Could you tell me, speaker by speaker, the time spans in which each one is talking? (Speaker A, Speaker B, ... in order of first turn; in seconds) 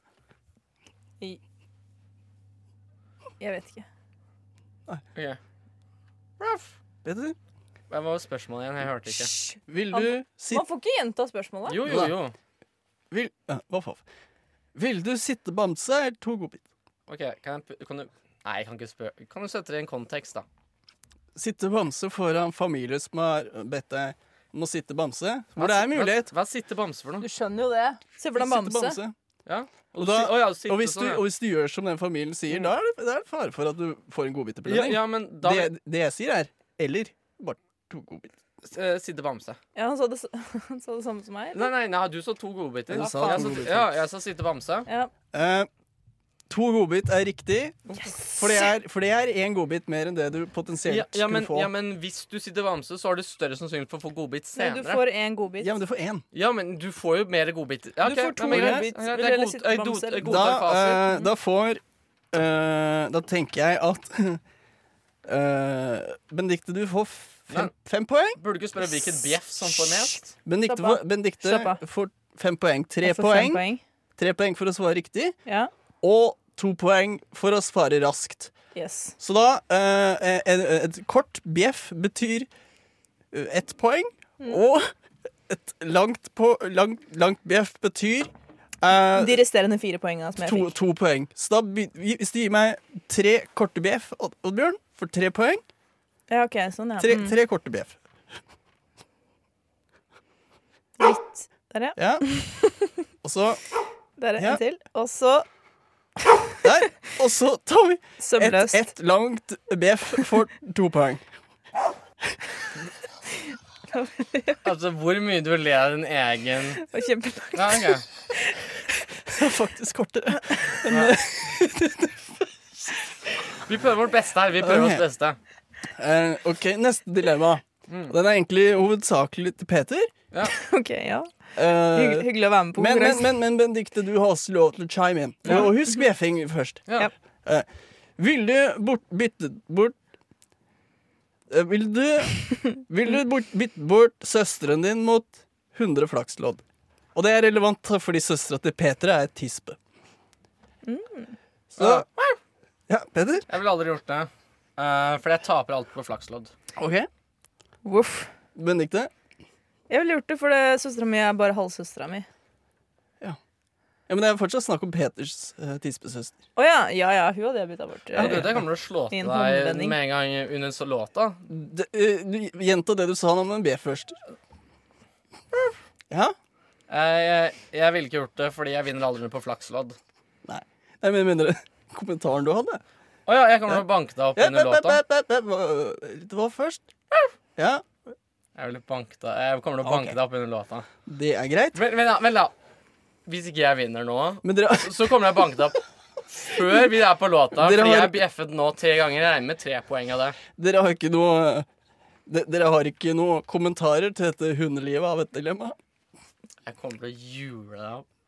Speaker A: 3.4-3.9, 9.2-12.0, 27.2-29.0, 39.8-41.7, 43.0-43.6, 48.0-48.6, 54.5-55.7, 58.0-60.5, 70.7-71.8, 73.0-73.8, 75.5-75.7, 78.7-79.2, 89.1-90.7, 96.3-97.4, 101.0-102.9, 104.2-105.5, 108.2-108.9, 113.9-114.6, 116.8-117.9, 130.4-133.3, 150.8-151.3, 157.8-158.3, 159.9-162.3, 166.6-168.5, 169.1-169.9
Speaker B: 7.0-7.4, 9.7-10.6, 11.8-12.1, 13.1-14.0, 14.7-16.6, 21.3-26.3, 28.3-29.1, 30.0-38.3, 42.9-44.0, 45.3-45.7, 46.5-51.7, 55.6-56.2, 58.0-58.9, 60.2-61.8, 62.3-64.4, 65.2-68.4, 70.4-73.6, 74.2-75.3, 76.0-78.5, 79.2-82.5, 83.3-84.9, 85.5-89.4, 90.4-95.6, 97.0-98.0, 102.0-102.2, 103.2-103.6, 106.6-111.2, 119.2-122.3, 124.6-125.0, 126.0-130.1, 131.5-136.9, 138.2-140.0, 141.5-146.6, 147.1-149.8, 151.7-152.1, 152.9-153.5, 156.8-157.1, 158.5-159.1, 164.1-166.3, 168.1-168.6, 171.5-174.2, 180.4-182.8, 184.3-186.9, 187.6-187.9, 189.8-190.2, 191.1-191.8, 194.4-195.1, 197.5-198.2, 200.6-201.7, 202.2-205.8
Speaker C: 7.9-9.3, 11.7-12.3, 17.1-20.4, 25.6-27.2, 29.4-31.2, 34.6-35.7, 38.6-39.6, 41.5-44.9, 50.8-55.0, 56.3-61.1, 68.4-70.3, 114.6-116.8, 117.5-118.0, 120.8-121.2, 123.6-125.4, 127.9-128.1, 151.8-152.4, 153.5-156.5, 168.2-171.4, 176.9-179.9, 183.3-185.0, 188.6-190.9, 191.7-192.5, 193.2-195.8, 196.3-200.4, 206.7-208.0